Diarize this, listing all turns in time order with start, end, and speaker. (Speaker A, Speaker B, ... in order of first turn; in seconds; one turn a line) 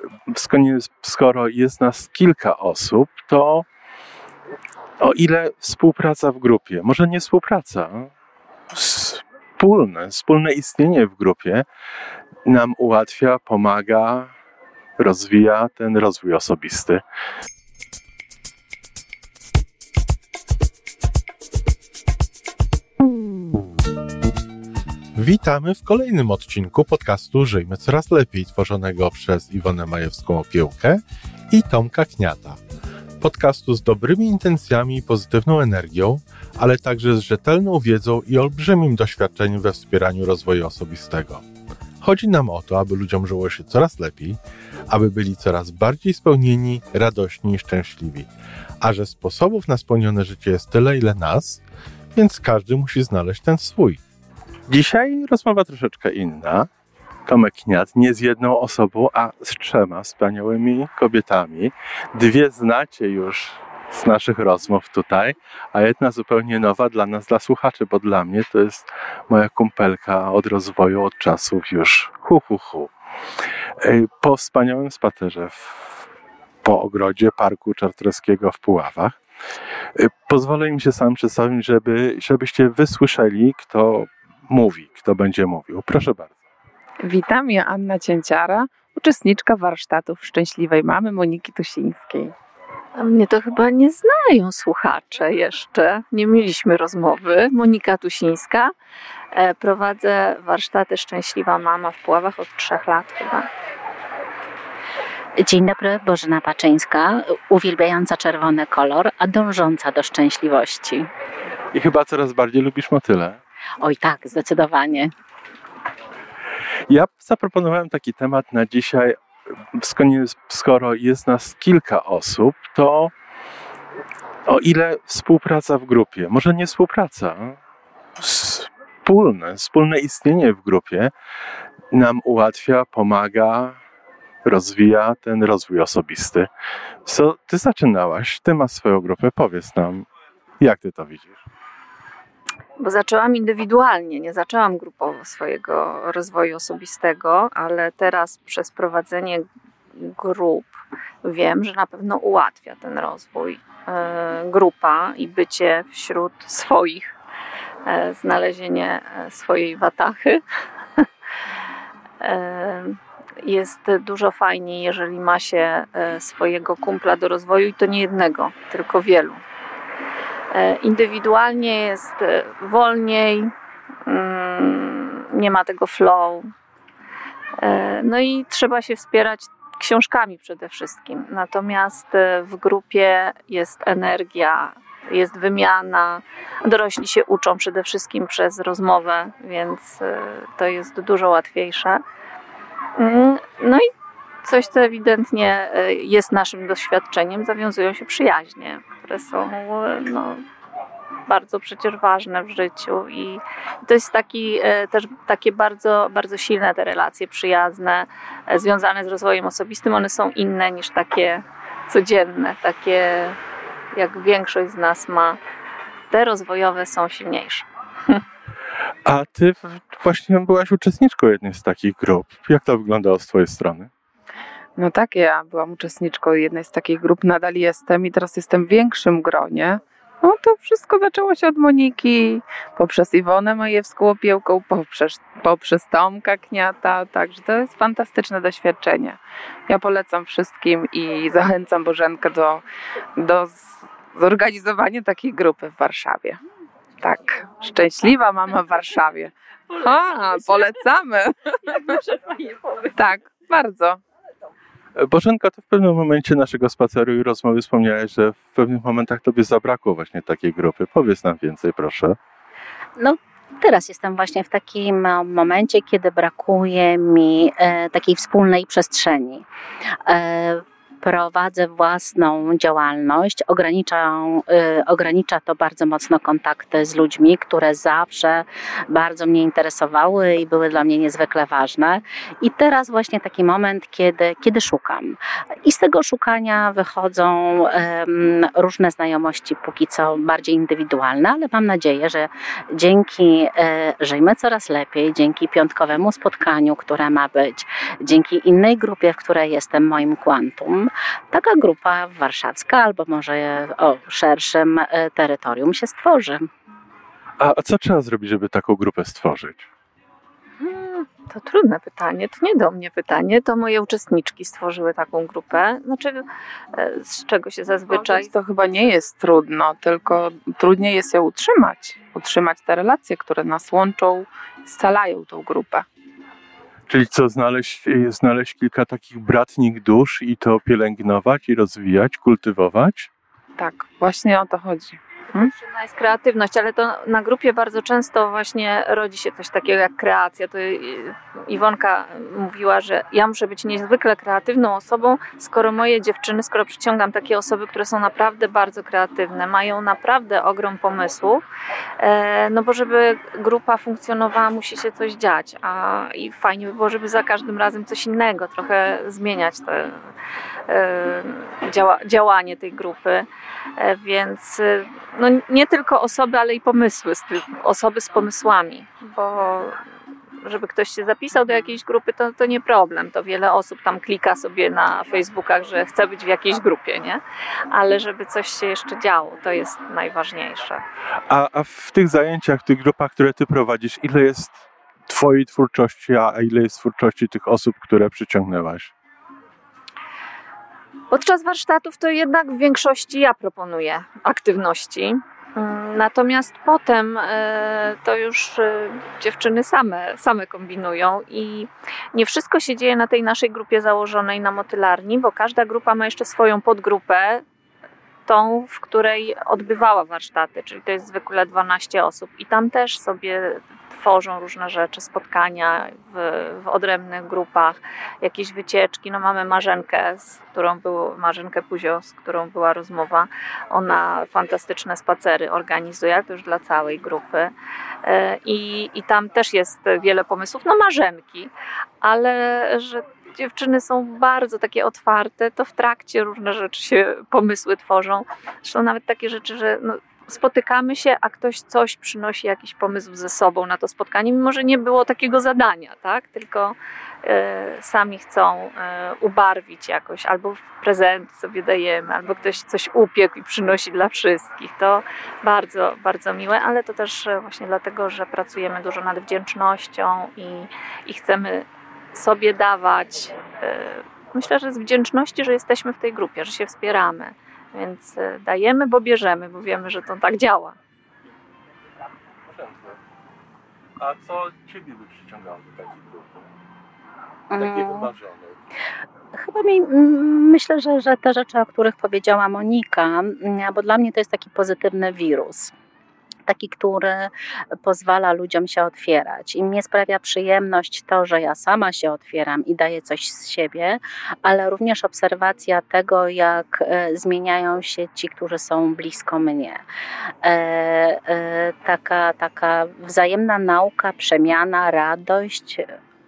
Speaker A: 0.3-3.6
Speaker A: 5.0-8.1
Speaker A: 8.7-11.6
Speaker A: 12.4-14.3
Speaker A: 15.0-17.0
Speaker A: 25.1-32.6
Speaker A: 33.2-41.4
Speaker A: 42.0-48.3
Speaker A: 48.8-51.6
Speaker A: 52.1-54.0
Speaker A: 54.7-56.7
Speaker A: 57.2-72.9
Speaker A: 73.8-76.0
Speaker A: 76.6-79.2
Speaker A: 80.0-86.3
Speaker B: 87.0-92.3
Speaker C: 93.0-98.7
Speaker C: 99.3-103.5
Speaker D: 105.4-111.1
Speaker A: 111.7-113.4
Speaker D: 113.8-115.1
Speaker A: 116.9-119.2
Speaker A: 119.7-123.1
Speaker A: 124.5-127.6
Speaker A: 128.2-131.1
Speaker A: 131.9-133.8
Speaker A: 134.4-136.5
Speaker A: 137.1-140.1
Speaker A: 140.6-141.4
Speaker C: 142.8-157.1
Speaker C: 157.8-160.4
Speaker C: 162.2-169.4
Speaker C: 170.5-173.5
Speaker C: 174.1-176.4
Speaker C: 177.6-192.0
Speaker C: 193.0-193.8
Speaker C: 194.4-200.4
Speaker C: 201.3-213.4
Speaker C: 213.9-215.4
Speaker C: 216.1-218.2
Speaker A: 219.1-223.9
Speaker B: 224.8-242.6
Speaker B: 243.2-246.4
Speaker B: 247.0-252.0
Speaker C: 249.7-250.9
Speaker C: 251.7-253.1
Speaker B: 252.9-254.0
Speaker A: 254.9-262.2
Speaker D: 263.0-269.5
Speaker D: 270.1-306.5
Speaker A: 307.4-309.7
Speaker C: 310.6-318.3
Speaker B: 317.9-325.8
Speaker A: 326.9-333.1
Speaker B: 333.6-335.5
Speaker C: 335.3-351.4
Speaker C: 352.0-360.1
Speaker C: 360.7-363.2
Speaker C: 363.8-369.8
Speaker C: 370.4-380.8
Speaker A: 381.3-384.5
Speaker A: 385.1-388.9
Speaker C: 391.1-407.4
Speaker C: 408.3-427.5
Speaker C: 428.0-431.5
Speaker C: 432.0-470.8
Speaker A: 472.5-473.0
Speaker A: 474.0-476.4
Speaker D: 477.5-478.1
Speaker A: 477.6-478.6
Speaker D: 479.3-485.7
Speaker D: 486.5-499.8
Speaker D: 500.4-505.9